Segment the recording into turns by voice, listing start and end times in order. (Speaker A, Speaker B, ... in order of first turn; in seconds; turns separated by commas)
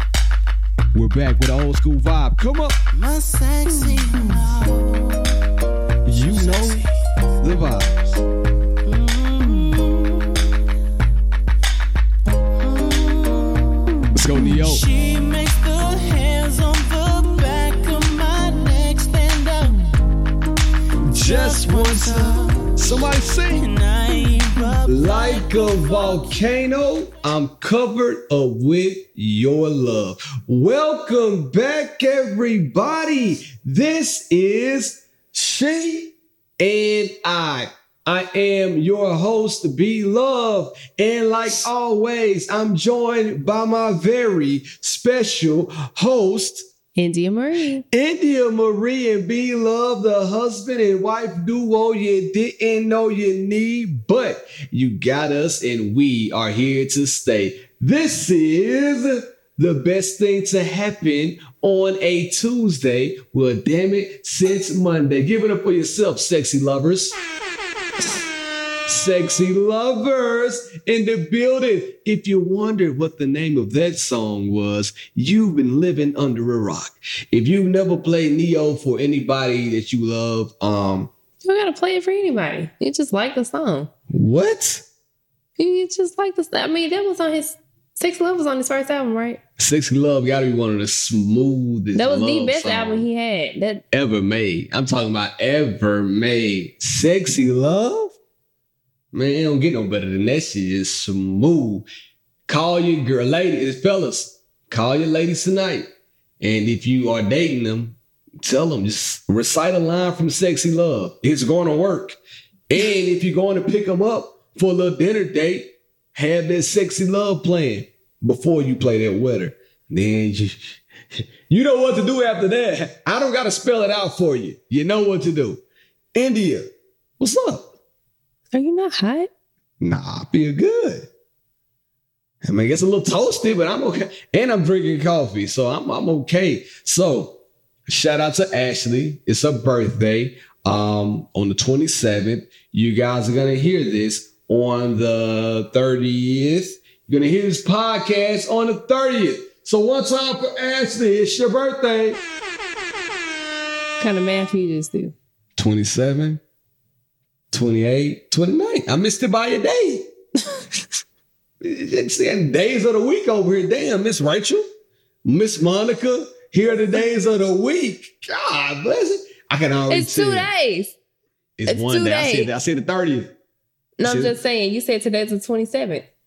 Speaker A: 0.9-2.8, Speaker B: 2.9-5.4, Speaker A: 6.0-6.8, Speaker B: 6.2-6.9, Speaker A: 7.4-8.2, Speaker B: 8.8-10.5, Speaker B: 12.6-19.9, Speaker A: 14.1-14.8, Speaker A: 21.1-23.7, Speaker B: 21.1-22.8, Speaker B: 23.4-26.4, Speaker A: 24.8-46.6, Speaker C: 47.0-47.8, Speaker A: 47.9-67.2, Speaker A: 68.9-81.1, Speaker C: 81.4-83.9, Speaker A: 84.1-84.8, Speaker C: 85.6-89.4, Speaker A: 89.6-93.0, Speaker C: 91.9-93.8, Speaker A: 93.9-98.2, Speaker A: 99.1-101.9, Speaker A: 102.5-105.9, Speaker A: 106.4-112.2, Speaker A: 112.7-125.6, Speaker A: 126.1-127.7, Speaker C: 128.5-129.3, Speaker A: 129.8-131.1, Speaker A: 132.4-152.2, Speaker C: 154.0-155.1, Speaker A: 155.6-156.4, Speaker A: 157.5-160.1, Speaker A: 161.6-164.7, Speaker A: 165.2-170.5, Speaker C: 169.9-170.9, Speaker A: 171.6-173.3, Speaker C: 171.7-172.5, Speaker C: 174.0-176.1, Speaker A: 174.0-174.3